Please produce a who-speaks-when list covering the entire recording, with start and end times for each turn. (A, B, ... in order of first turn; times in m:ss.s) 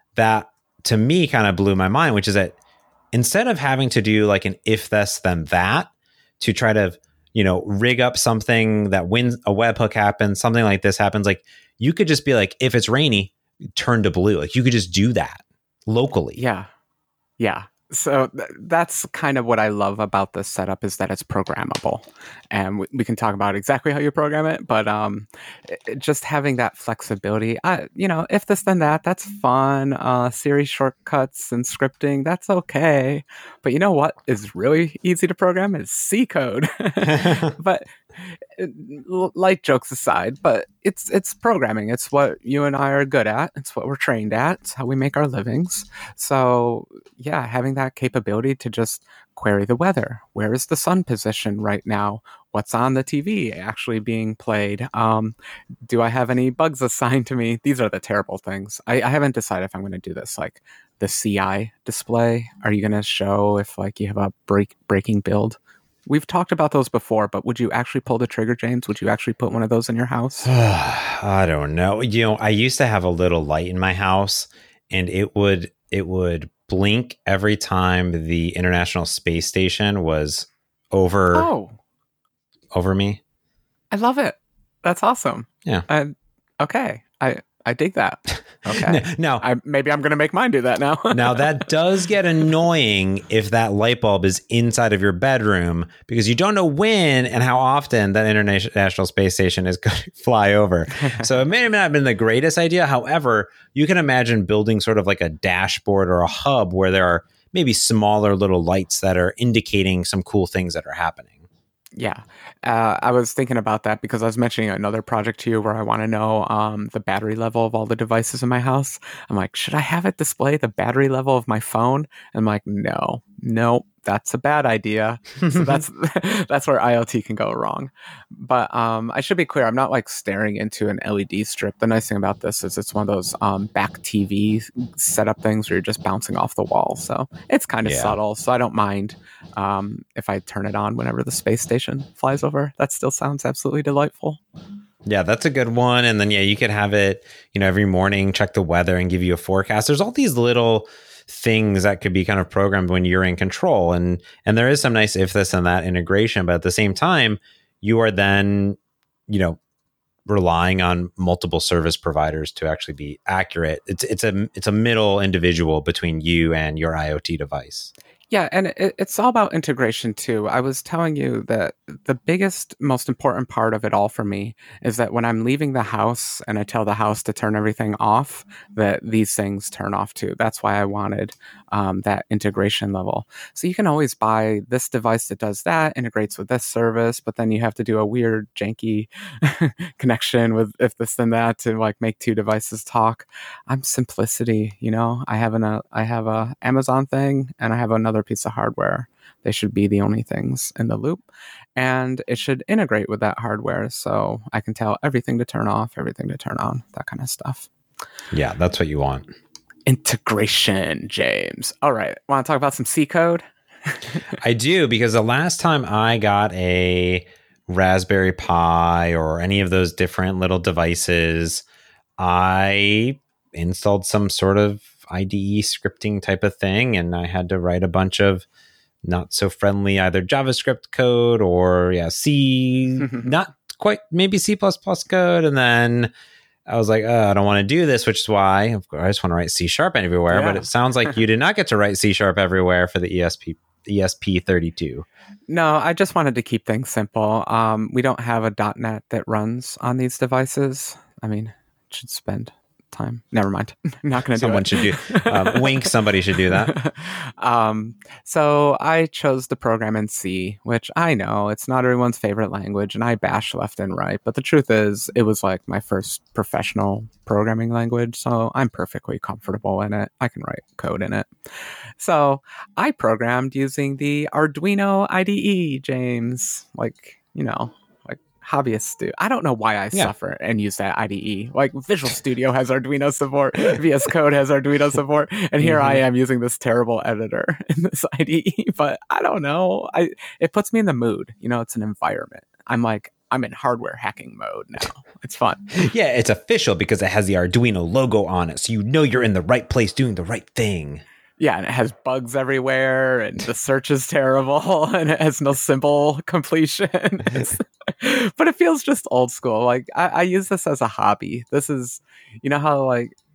0:00.1-0:02.6 A
0:03.1-0:16.4 A
0:16.4-0:16.7 B
0:17.4-1:10.5 B
0:37.1-0:37.5 A
1:10.4-1:21.5 A
1:21.3-1:21.8 B
1:22.7-1:23.2 A
1:23.9-1:31.7 B
1:28.7-1:29.4 A
1:31.1-1:51.4 A
1:41.0-1:41.3 B
1:52.0-2:24.4 B
2:17.8-2:18.2 A
2:25.0-2:39.6 A
2:40.2-2:47.9 A
2:48.3-3:21.2 B
3:21.8-3:27.7 B
3:28.3-3:29.2 A
3:29.8-3:34.4 B
3:34.4-3:41.6 A
3:42.2-3:48.4 A
3:49.0-3:56.1 A
3:53.0-3:53.3 B
3:56.7-4:05.0 A
4:00.3-4:00.7 B
4:05.5-4:15.9 B
4:14.4-4:16.7 A
4:16.5-4:31.3 B
4:32.0-4:55.8 B
4:45.6-4:46.0 A
4:55.7-5:01.0 A
5:01.4-5:13.2 B